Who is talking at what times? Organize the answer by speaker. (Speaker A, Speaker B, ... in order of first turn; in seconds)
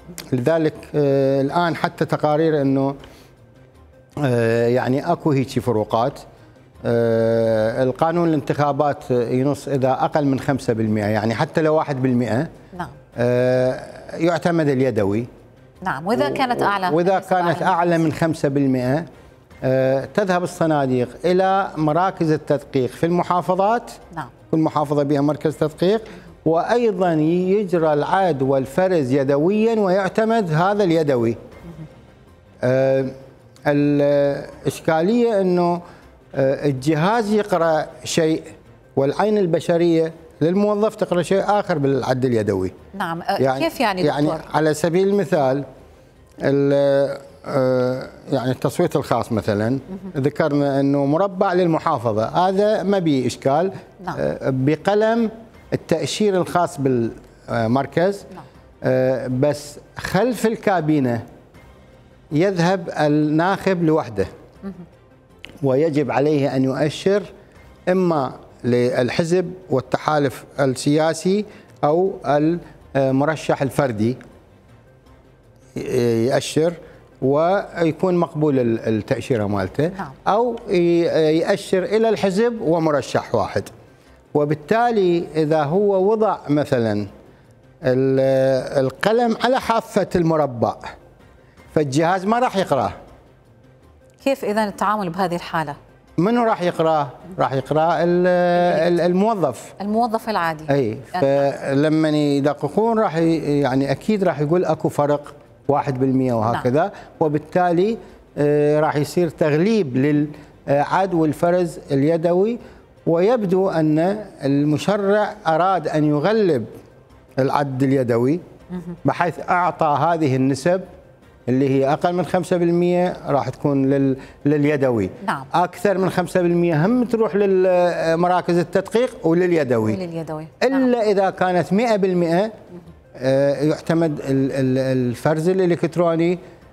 Speaker A: 0.3-3.0, 4.2-6.2, 6.8-12.5, 13.2-15.3, 16.1-19.1, 19.6-24.0, 24.5-31.4, 32.6-33.1, 33.7-35.8, 36.3-42.8, 43.4-45.7, 46.4-58.3, 58.8-61.2, 62.3-64.3, 65.6-67.3, 67.9-74.2, 75.8-83.7, 84.3-87.1, 87.8-90.9, 91.7-93.0, 96.2-99.8, 100.7-116.7, 117.4-118.4, 119.0-120.8, 121.5-130.0, 130.6-132.5, 133.2-136.4
Speaker B: 15.8-18.1, 42.9-44.5, 94.2-95.8, 99.8-101.5, 125.2-125.5, 129.8-130.9